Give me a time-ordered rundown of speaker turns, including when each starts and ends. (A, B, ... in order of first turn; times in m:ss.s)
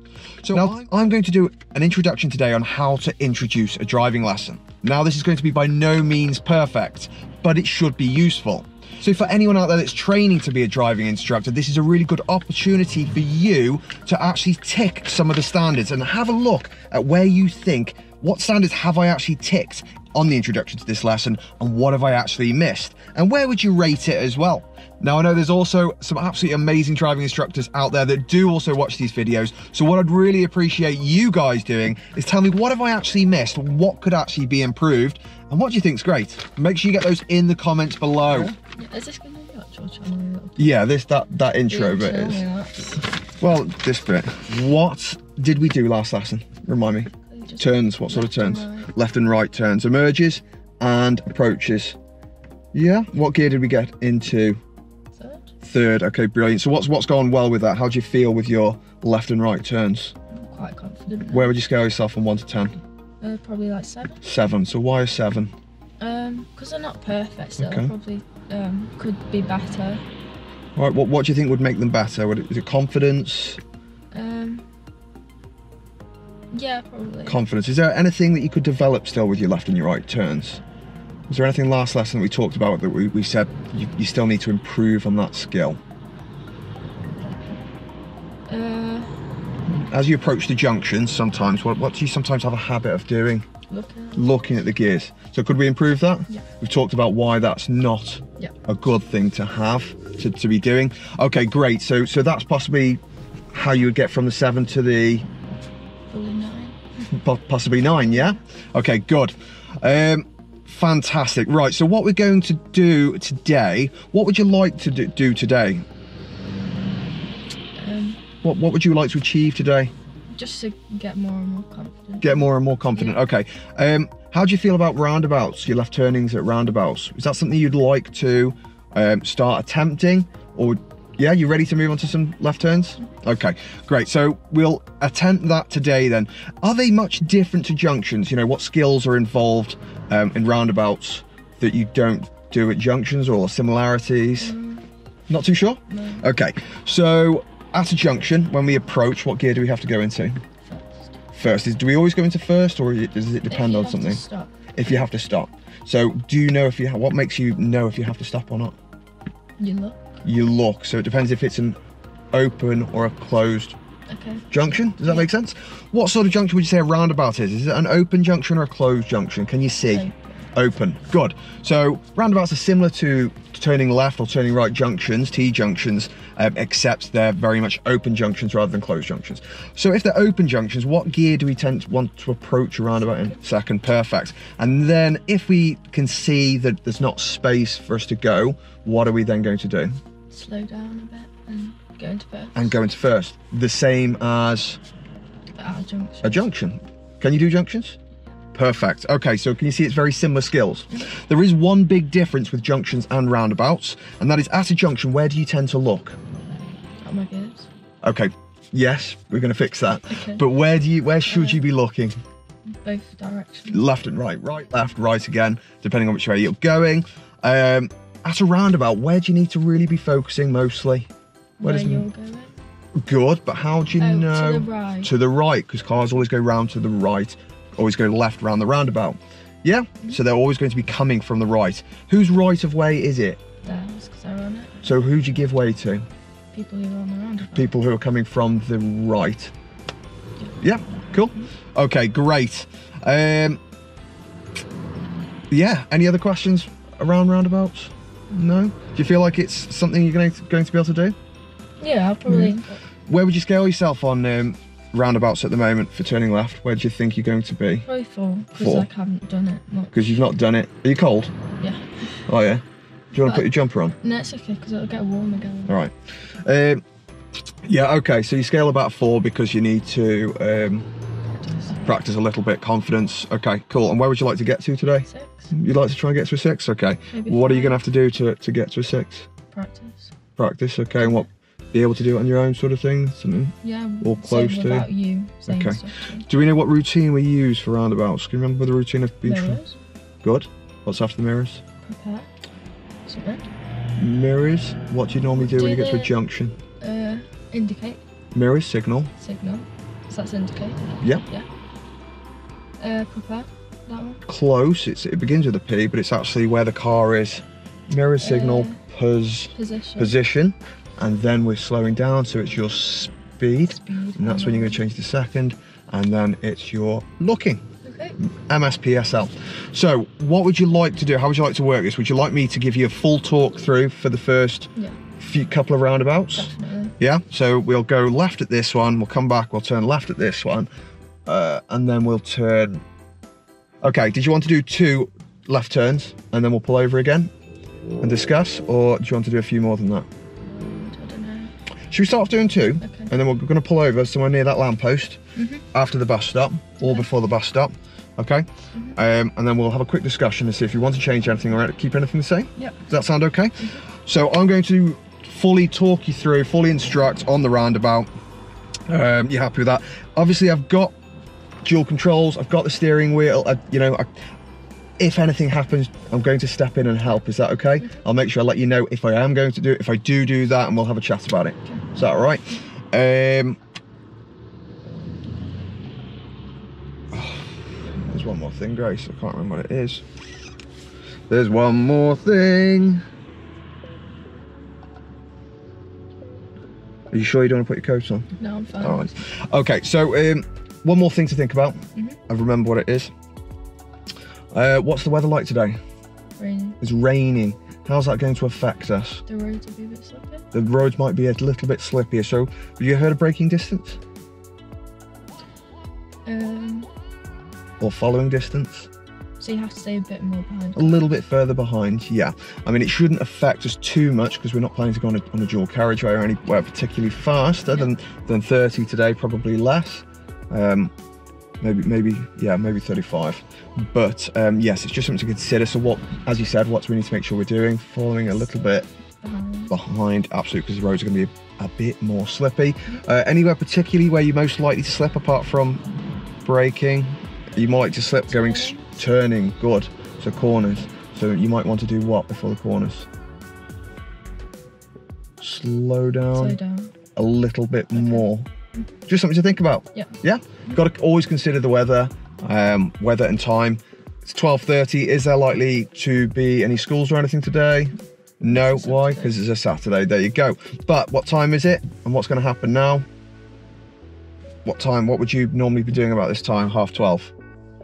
0:00.4-0:38.6 A
0:38.7-0:40.7 B
0:40.6-0:42.4 A
0:41.7-0:43.0 B
0:43.4-0:52.0 A
0:47.2-0:48.9 B
0:52.7-0:54.6 A
0:55.2-0:55.5 B
0:55.6-1:00.2 A
1:00.3-1:01.5 B
1:01.3-1:02.8 A
1:03.2-1:04.2 B
1:04.2-1:05.5 A
1:06.0-1:10.0 B
1:07.6-1:07.9 A
1:10.8-1:13.6 A
1:14.1-1:14.7 B
1:16.5-1:17.4 B
1:17.3-1:20.6 A
1:21.3-1:25.8 A
1:28.5-1:29.2 B
1:29.7-1:33.5 A
1:33.7-1:34.2 B
1:34.2-1:43.0 A
1:43.5-1:45.3 A
1:46.1-1:46.8 B
1:47.0-1:55.8 A
1:57.8-1:58.2 B
1:58.4-1:59.9 A
2:00.3-2:03.2 B
2:02.2-2:24.6 A
2:24.4-2:24.8 B
2:25.3-2:30.4 A
2:25.9-2:26.2 B
2:30.6-2:31.1 B
2:31.4-2:34.2 A
2:33.5-2:34.5 B
2:34.7-2:38.8 A
2:39.6-2:40.1 B
2:40.2-2:41.8 A
2:42.3-2:43.8 A
2:44.1-2:44.5 B
2:44.5-3:10.0 A
2:45.0-2:45.3 B
2:49.9-2:50.4 B
3:10.3-3:12.8 B
3:12.6-3:14.8 A
3:15.6-3:16.5 B
3:16.2-3:18.0 A
3:18.5-3:26.2 A
3:27.0-3:27.7 B
3:28.0-3:32.2 A
3:30.1-3:30.4 B
3:31.3-3:31.6 B
3:32.7-3:33.9 B
3:33.7-3:41.1 A
3:41.6-3:42.5 B
3:41.6-3:42.1 A
3:43.0-3:53.4 A
3:44.0-3:45.1 B
3:53.6-3:54.8 B
3:54.8-3:56.1 A
3:56.5-3:57.7 B
3:57.4-3:59.5 A
4:00.6-4:03.6 A
4:05.5-4:11.2 A
4:11.8-4:12.8 B
4:12.3-4:12.6 A
4:13.1-4:17.9 A
4:17.9-4:20.2 B
4:18.6-4:18.9 A
4:19.9-4:21.3 A
4:21.6-4:22.1 B
4:22.3-4:24.0 A
4:23.2-4:23.5 B
4:24.0-4:25.8 B
4:25.7-4:26.8 A
4:27.6-4:30.9 A
4:31.4-4:32.0 B
4:31.8-4:39.3 A
4:35.1-4:35.5 B
4:37.1-4:37.8 B
4:39.5-4:40.1 B
4:40.4-4:44.9 A
4:41.0-4:41.3 B
4:43.6-4:46.3 B
4:45.5-4:49.6 A
4:49.2-4:49.8 B
4:50.2-4:51.6 A
4:51.8-4:52.3 B
4:53.1-4:53.5 B
4:54.0-4:56.6 A
4:55.3-4:56.1 B
4:56.8-4:58.0 B
4:58.3-4:59.1 A
4:59.2-5:01.5 B
5:02.8-5:04.2 B
5:04.3-5:17.6 A
5:08.2-5:08.8 B
5:09.6-5:10.1 B
5:13.7-5:14.8 B
5:17.8-5:18.2 B
5:18.2-5:30.7 A
5:26.4-5:27.0 B
5:31.3-5:32.8 A
5:33.8-5:37.3 A
5:38.0-5:40.1 A
5:40.4-5:41.5 B
5:41.9-5:45.2 A
5:42.8-5:43.1 B
5:45.4-5:45.6 B
5:45.7-5:58.1 A
5:52.6-5:52.8 B
5:58.9-6:00.9 A
6:01.6-6:04.1 A
6:05.0-6:13.6 A
6:11.7-6:11.9 B
6:17.1-6:20.0 A
6:21.3-6:23.0 A
6:27.1-6:33.1 A
6:28.4-6:29.2 B
6:34.5-6:35.8 A
6:36.4-6:36.8 B
6:36.8-6:39.2 A
6:39.3-6:40.4 B
6:40.5-6:44.0 A
6:46.2-6:46.9 B
6:47.8-6:48.9 A
6:49.4-6:51.1 B
6:50.8-7:00.9 A
7:01.6-7:08.9 A
7:09.2-7:09.7 B
7:09.7-7:15.8 A
7:16.4-7:23.1 A
7:18.3-7:19.0 B
7:25.4-7:26.6 A
7:26.4-7:26.9 B
7:27.2-7:28.5 A
7:28.0-7:28.2 B
7:29.1-7:43.0 A
7:38.5-7:39.4 B
7:44.6-7:47.3 A